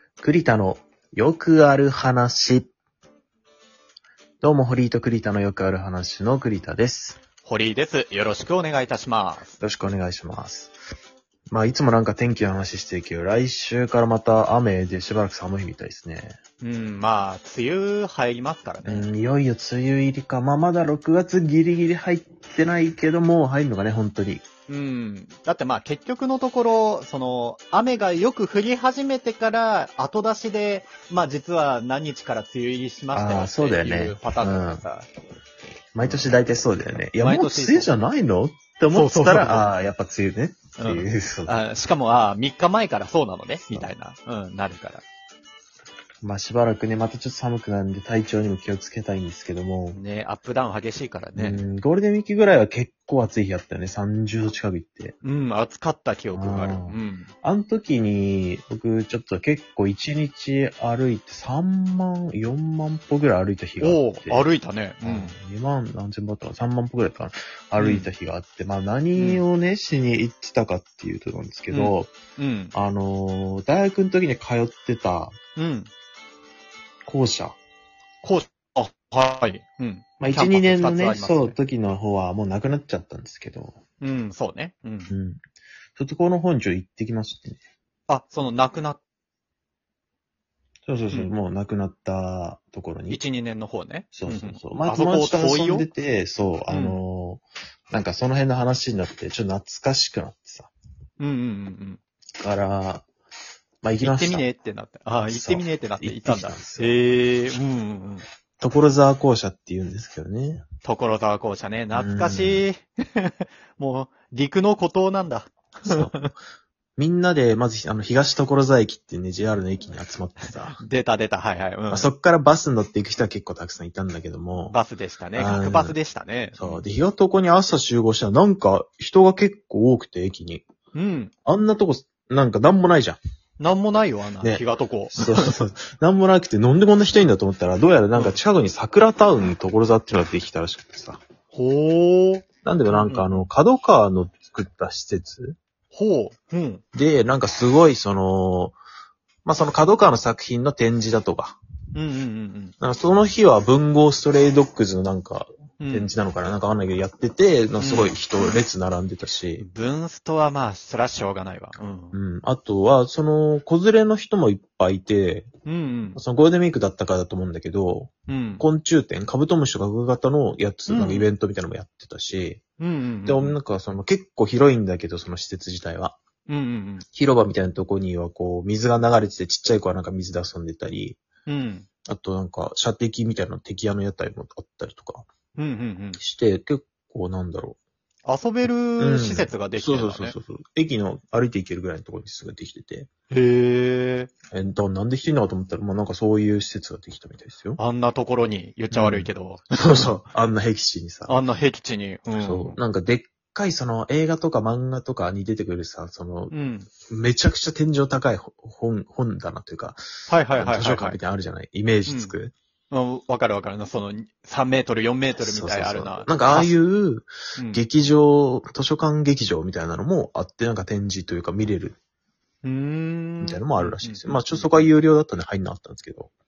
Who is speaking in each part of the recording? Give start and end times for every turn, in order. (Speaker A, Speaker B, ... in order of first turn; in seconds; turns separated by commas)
Speaker A: 0.2-2.7, Speaker A: 4.4-7.2, Speaker B: 7.4-9.6, Speaker A: 9.6-10.7, Speaker A: 11.5-16.4, Speaker B: 16.6-19.1, Speaker A: 18.9-24.4, Speaker B: 24.7-35.1, Speaker A: 33.1-34.8, Speaker A: 36.0-41.6, Speaker B: 36.0-36.3, Speaker B: 37.2-37.9, Speaker B: 38.9-39.7, Speaker B: 40.8-45.0, Speaker A: 46.2-50.0, Speaker B: 49.9-51.6, Speaker A: 51.4-55.2, Speaker B: 55.2-57.3, Speaker A: 56.3-64.5, Speaker B: 63.8-65.3, Speaker A: 65.0-72.1, Speaker B: 67.8-68.1, Speaker B: 69.2-69.4, Speaker B: 71.7-72.7, Speaker A: 72.7-75.4, Speaker B: 75.6-75.9, Speaker A: 77.1-77.6, Speaker B: 78.2-81.6, Speaker A: 80.2-83.8, Speaker B: 84.0-85.1, Speaker A: 85.1-85.4, Speaker A: 86.0-87.6, Speaker B: 88.1-89.0, Speaker A: 90.9-93.2, Speaker B: 93.1-95.9, Speaker A: 94.1-100.7, Speaker B: 96.7-97.0, Speaker B: 101.2-102.0, Speaker A: 102.4-103.1, Speaker A: 103.8-104.5, Speaker B: 104.0-108.2, Speaker A: 105.2-107.0, Speaker A: 108.6-110.7, Speaker B: 110.8-116.3, Speaker A: 111.9-112.7, Speaker A: 115.8-116.1, Speaker A: 117.0-120.8, Speaker B: 120.5-122.1, Speaker A: 121.9-124.8, Speaker B: 124.7-126.8, Speaker A: 125.3-126.0, Speaker A: 126.6-130.7, Speaker B: 130.9-131.3, Speaker A: 131.5-133.2, Speaker B: 133.6-135.6, Speaker A: 134.4-141.2, Speaker B: 141.5-143.4, Speaker A: 142.7-145.6, Speaker B: 145.9-146.8, Speaker A: 146.9-148.8, Speaker A: 149.4-151.6, Speaker B: 151.9-152.7, Speaker A: 152.8-159.7, Speaker B: 155.8-156.1, Speaker B: 157.8-158.2, Speaker B: 159.6-162.2, Speaker A: 162.1-165.5, Speaker B: 165.7-166.2, Speaker A: 166.2-172.6, Speaker B: 168.3-168.7, Speaker B: 170.9-171.3, Speaker B: 172.8-173.6, Speaker A: 173.2-176.2, Speaker B: 176.5-177.1, Speaker A: 177.1-181.2, Speaker B: 181.5-181.9, Speaker A: 182.1-185.3, Speaker B: 185.6-186.2, Speaker A: 186.2-187.8, Speaker B: 188.3-190.3, Speaker A: 189.0-193.1, Speaker B: 193.3-194.3, Speaker A: 194.5-197.8, Speaker B: 197.8-200.1, Speaker A: 198.9-201.4, Speaker B: 201.3-202.8, Speaker A: 202.4-206.5, Speaker B: 206.5-206.9, Speaker A: 207.1-212.5, Speaker B: 210.3-211.2, Speaker B: 212.1-212.4, Speaker B: 212.9-216.8, Speaker A: 215.4-222.0, Speaker B: 217.6-217.8, Speaker B: 222.6-224.9, Speaker A: 223.4-226.3